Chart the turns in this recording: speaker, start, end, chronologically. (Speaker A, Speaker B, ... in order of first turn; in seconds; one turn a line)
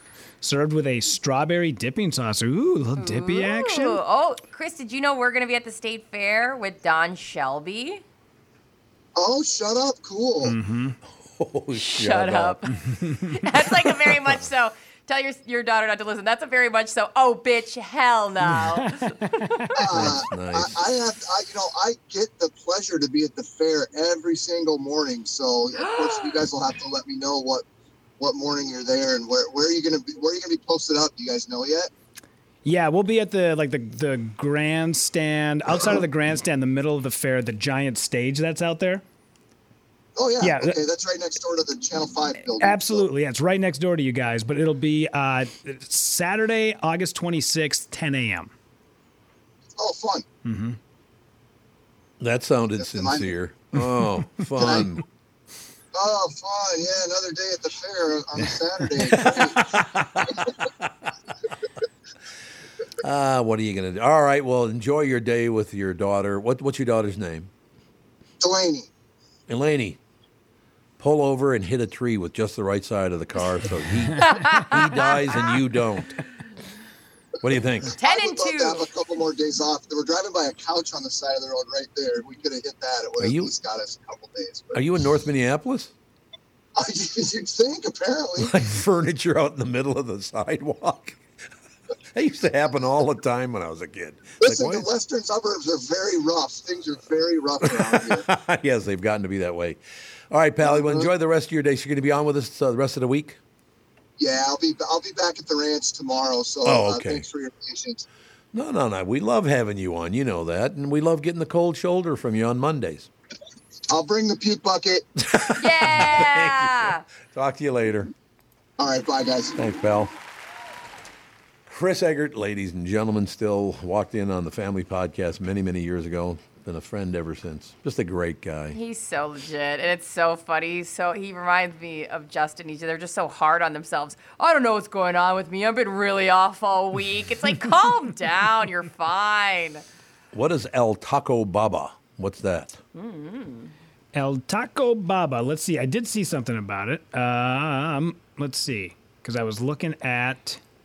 Speaker A: 0.4-4.0
Speaker B: 3.0-8.0
Speaker C: 9.2-10.6
Speaker A: 10.4-11.0
Speaker D: 11.1-12.7
Speaker B: 11.7-19.6
Speaker A: 12.8-13.2
Speaker D: 14.1-14.4
Speaker A: 18.5-19.7
Speaker C: 19.7-27.6
Speaker D: 19.9-20.8
Speaker B: 25.8-26.5
Speaker C: 28.2-31.9
Speaker A: 32.6-39.0
Speaker C: 40.1-43.0
Speaker A: 40.4-40.8
Speaker A: 42.5-48.5
Speaker C: 49.7-50.2
Speaker A: 50.4-50.8
Speaker D: 52.2-55.0
Speaker C: 52.8-53.3
Speaker C: 54.6-55.0
Speaker C: 55.9-60.3
Speaker D: 59.2-60.9
Speaker D: 63.0-67.5
Speaker C: 68.4-68.9
Speaker D: 69.5-70.0
Speaker D: 71.0-76.2
Speaker B: 74.2-75.6
Speaker D: 77.4-77.9
Speaker C: 77.9-84.9
Speaker B: 78.0-78.9
Speaker D: 83.2-83.5
Speaker D: 84.7-85.9
Speaker C: 86.8-88.5
Speaker D: 88.4-91.2
Speaker D: 92.1-94.9
Speaker C: 94.4-98.2
Speaker D: 97.6-99.8
Speaker D: 100.3-103.4
Speaker C: 100.6-101.1
Speaker C: 104.2-108.0
Speaker D: 106.6-107.2
Speaker D: 108.5-113.1
Speaker C: 113.9-115.0
Speaker D: 115.2-118.1
Speaker B: 115.6-117.0
Speaker C: 118.8-119.8
Speaker D: 119.5-120.1
Speaker D: 121.7-128.8
Speaker B: 128.7-139.8
Speaker D: 140.3-142.8
Speaker B: 142.9-143.7
Speaker A: 144.1-150.6